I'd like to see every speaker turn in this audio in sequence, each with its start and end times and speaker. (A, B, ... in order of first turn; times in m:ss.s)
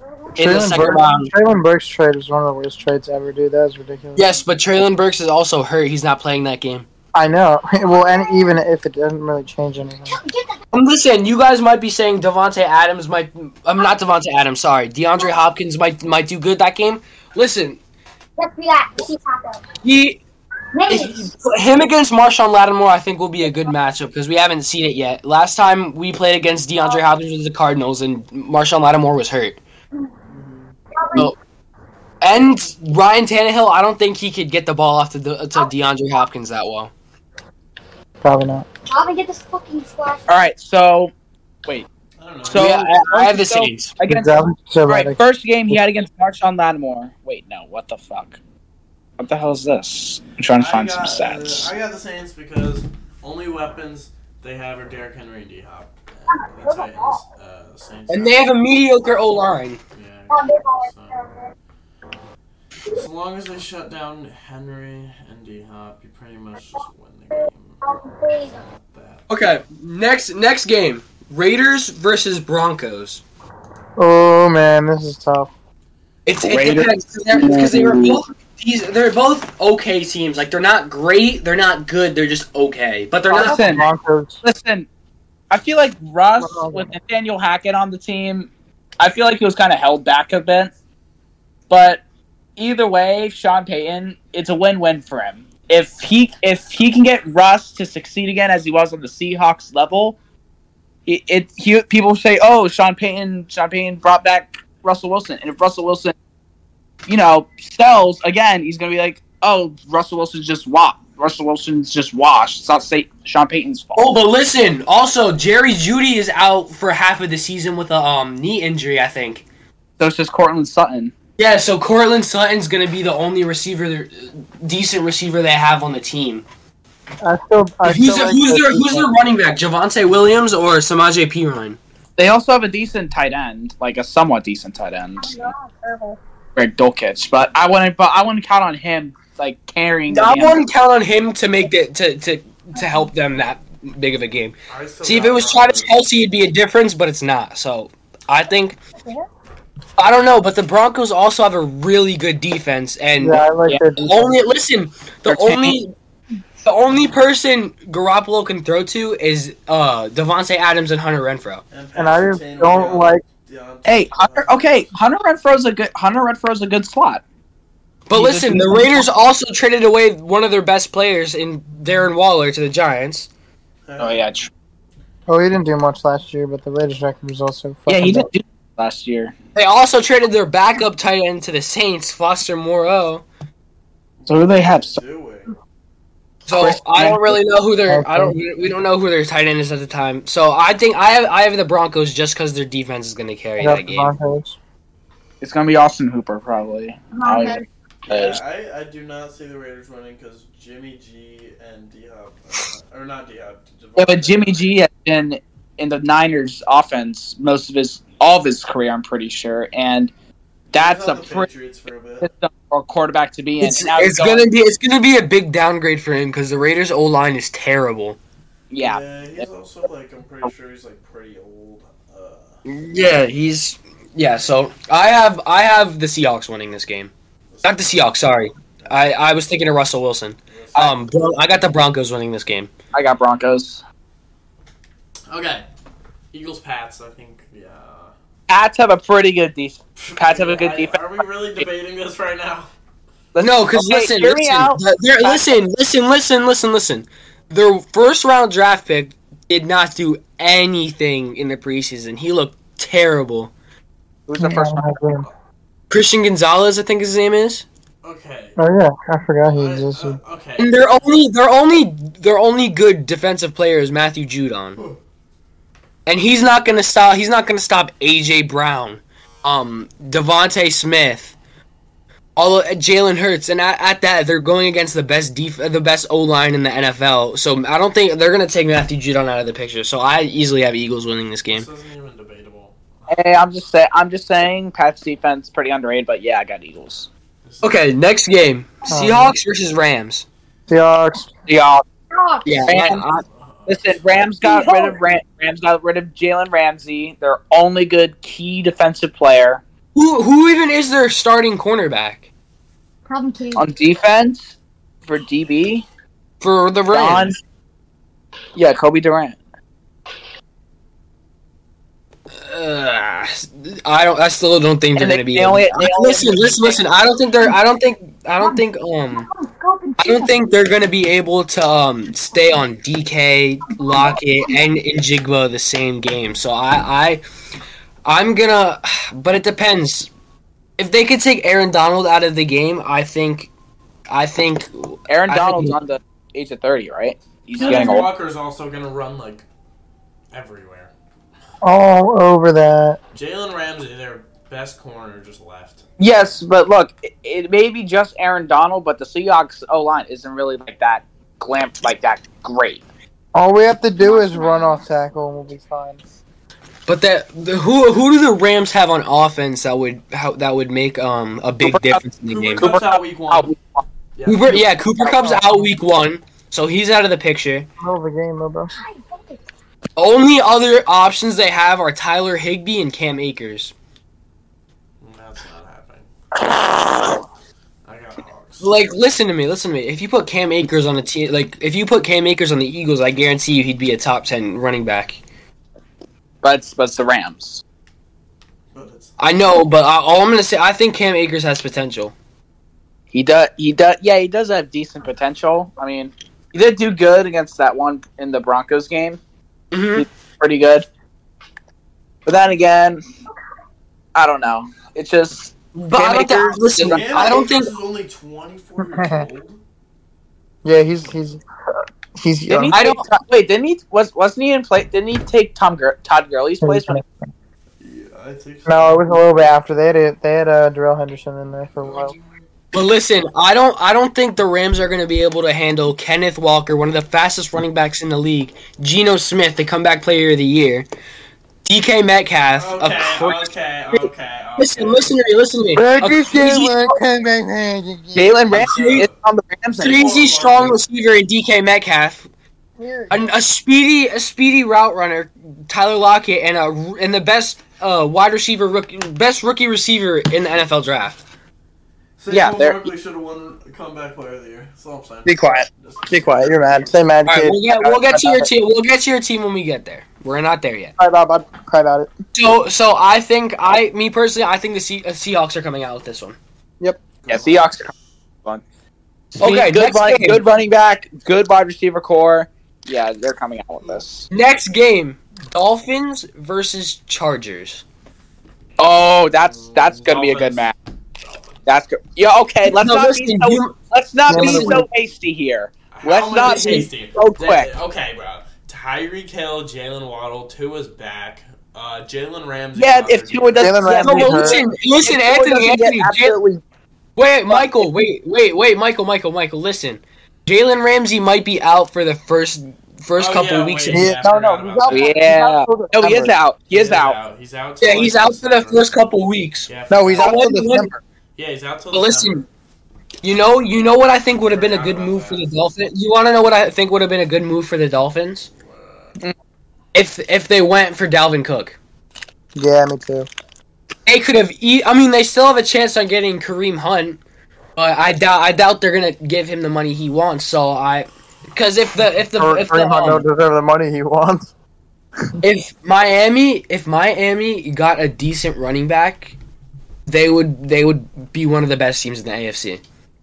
0:00.4-0:01.3 A
0:00.4-0:04.3 B
0:04.2-0:06.9 A
0:07.1-0:10.2 B
0:10.1-0:10.6 C
0:10.7-0:17.8 A
0:18.4-0:19.6 C
0:19.8-0:20.2 A
0:20.7-0:21.3 C
0:20.9-0:29.6 A
0:30.3-0:30.8 D
0:30.9-0:31.3 C
0:32.2-0:36.9 A
0:38.2-0:38.7 B
0:38.9-0:40.3 C
0:40.3-0:41.1 E
0:42.2-0:42.8 D
0:42.4-0:48.4 E
0:42.5-0:44.0 A
0:44.1-0:45.2 B
0:49.2-0:51.7 E
0:50.5-0:58.4 D
0:56.3-0:57.2 C
0:58.1-0:59.8 A
0:59.9-1:01.2 D
1:00.3-1:01.4 C
1:02.9-1:08.0 D
1:07.8-1:08.6 C
1:08.7-1:09.3 D
1:09.3-1:13.2 A
1:14.0-1:15.5 B
1:16.3-1:23.7 A
1:16.4-1:18.2 E
1:23.3-1:23.9 E
1:23.4-1:24.4 B
1:24.4-1:24.9 E
1:25.5-1:30.7 E
1:26.4-1:26.9 B
1:31.7-1:32.0 E
1:32.6-1:40.2 E
1:41.1-1:46.1 E
1:47.1-1:54.1 E
1:54.0-1:59.4 A
2:00.0-2:01.2 E
2:01.4-2:06.4 A
2:07.2-2:09.1 B
2:07.8-2:11.8 A
2:12.2-2:15.4 E
2:15.2-2:16.2 C
2:16.6-2:20.6 E
2:20.1-2:28.8 A
2:24.7-2:26.0 D
2:30.0-2:36.0 A
2:33.2-2:34.4 B
2:35.3-2:35.8 E
2:36.6-2:41.6 A
2:41.7-2:44.9 D
2:42.0-2:43.2 B
2:43.9-2:47.2 E
2:48.1-2:53.3 A
2:48.1-2:49.0 E
2:53.9-2:54.3 D
2:54.0-2:54.5 E
2:55.3-2:58.3 B
2:57.9-2:59.3 E
2:59.6-3:03.2 A
3:04.2-3:05.6 D
3:04.3-3:05.0 E
3:06.5-3:14.1 A
3:06.5-3:07.2 E
3:07.9-3:08.4 B
3:13.6-3:14.6 B
3:15.4-3:18.4 E
3:17.1-3:17.6 C
3:18.1-3:24.8 D
3:24.0-3:30.1 E
3:30.7-3:32.3 D
3:30.8-3:31.5 E
3:32.2-3:34.5 E
3:33.6-3:38.2 A
3:38.7-3:39.4 E
3:38.8-3:42.6 D
3:42.6-3:47.1 A
3:47.5-3:48.2 D
3:47.6-3:52.7 A
3:50.5-3:51.0 D
3:50.8-3:51.0 E
3:52.9-3:53.8 E
3:55.3-3:55.7 D
3:56.3-3:58.1 D
3:58.5-4:01.0 E
4:00.0-4:02.7 D
4:03.4-4:05.6 E
4:03.4-4:13.5 A
4:14.3-4:14.9 E
4:14.4-4:15.3 B
4:15.9-4:17.6 A
4:18.0-4:18.6 D
4:18.6-4:20.2 B
4:19.5-4:20.9 D
4:20.6-4:24.8 A
4:26.1-4:31.4 A
4:32.4-4:41.7 A
4:41.5-4:43.2 D
4:43.1-4:47.1 E
4:47.4-4:48.0 D
4:47.6-4:50.3 A
4:48.9-4:49.3 B
4:50.7-4:51.3 B
4:51.5-4:51.8 E
4:52.1-4:52.8 C
4:52.4-4:53.2 A
4:52.7-4:53.0 E
4:53.2-4:54.3 D
4:53.7-4:59.6 E
4:54.4-4:55.0 C
5:00.0-5:02.3 A
5:03.1-5:03.7 C
5:03.6-5:05.9 E
5:06.4-5:07.4 A
5:06.9-5:07.4 E
5:08.6-5:09.4 E
5:12.3-5:19.3 A
5:15.0-5:16.8 E
5:19.2-5:20.4 C
5:20.0-5:27.2 A
5:23.9-5:24.5 C
5:28.0-5:30.1 A
5:30.8-5:33.5 A
5:34.1-5:35.8 A
5:35.1-5:38.1 E
5:37.6-5:39.5 D
5:40.3-5:40.9 D
5:41.6-5:43.0 B
5:43.1-5:45.9 D
5:46.0-5:52.8 E
5:53.4-5:56.0 B
5:54.0-5:54.8 C
5:56.9-6:02.7 A
6:01.6-6:02.0 E
6:02.3-6:03.5 D
6:02.6-6:03.8 E
6:04.2-6:04.7 D
6:04.3-6:07.7 A
6:05.1-6:05.5 B
6:07.8-6:08.7 B
6:08.8-6:09.4 C
6:10.0-6:13.7 A
6:15.0-6:16.1 D
6:17.8-6:18.8 D
6:18.6-6:25.2 A
6:26.4-6:27.6 E
6:28.7-6:29.2 D
6:29.2-6:32.1 A
6:33.1-6:39.2 E
6:39.7-6:40.1 A
6:40.0-6:40.9 E
6:42.3-6:43.0 E
6:44.2-6:47.4 E
6:45.8-6:47.7 A
6:46.8-6:49.6 D
6:48.9-6:49.2 B
6:50.6-6:51.4 B
6:52.2-6:52.8 B
6:52.5-6:57.0 E
6:52.7-6:53.0 A
6:56.6-6:57.1 B
6:57.8-6:59.2 D
6:58.7-7:02.1 B
7:01.8-7:02.2 D
7:02.7-7:10.9 A
7:11.6-7:13.5 A
7:12.6-7:15.1 D
7:14.6-7:17.0 A
7:15.8-7:18.6 B
7:18.2-7:20.1 E
7:18.5-7:19.1 A
7:18.8-7:19.1 D
7:19.8-7:22.3 A
7:19.8-7:20.8 D
7:22.8-7:23.3 B
7:23.1-7:31.2 A
7:32.2-7:36.9 D
7:32.3-7:32.9 E
7:35.3-7:38.5 B
7:37.3-7:40.9 A
7:41.0-7:42.1 B
7:42.3-7:46.4 A
7:47.2-7:48.0 D
7:47.3-7:47.9 E
7:49.3-7:54.3 E
7:49.4-7:50.4 A
7:54.3-7:57.8 A
7:58.8-8:00.8 E
7:59.2-8:01.6 D
8:01.7-8:07.7 E
8:02.7-8:03.8 A
8:04.3-8:04.8 B
8:04.3-8:04.8 A
8:05.9-8:13.9 D
8:06.4-8:06.9 A
8:12.8-8:16.6 E
8:13.6-8:14.6 B
8:14.0-8:16.4 A
8:17.2-8:24.1 A
8:17.5-8:17.9 E
8:23.2-8:25.2 D
8:23.9-8:26.3 B
8:24.9-8:27.2 E
8:26.7-8:28.9 D
8:27.8-8:30.9 A
8:29.7-8:30.4 D
8:29.9-8:31.0 B
8:31.4-8:32.5 D
8:31.9-8:32.4 A
8:33.2-8:38.5 A
8:34.5-8:35.4 D
8:38.7-8:39.1 D
8:39.9-8:41.8 A
8:42.6-8:43.3 B
8:44.1-8:47.2 A
8:47.8-8:53.2 A
8:52.4-8:54.5 B
8:55.4-8:59.4 A
9:00.1-9:02.8 A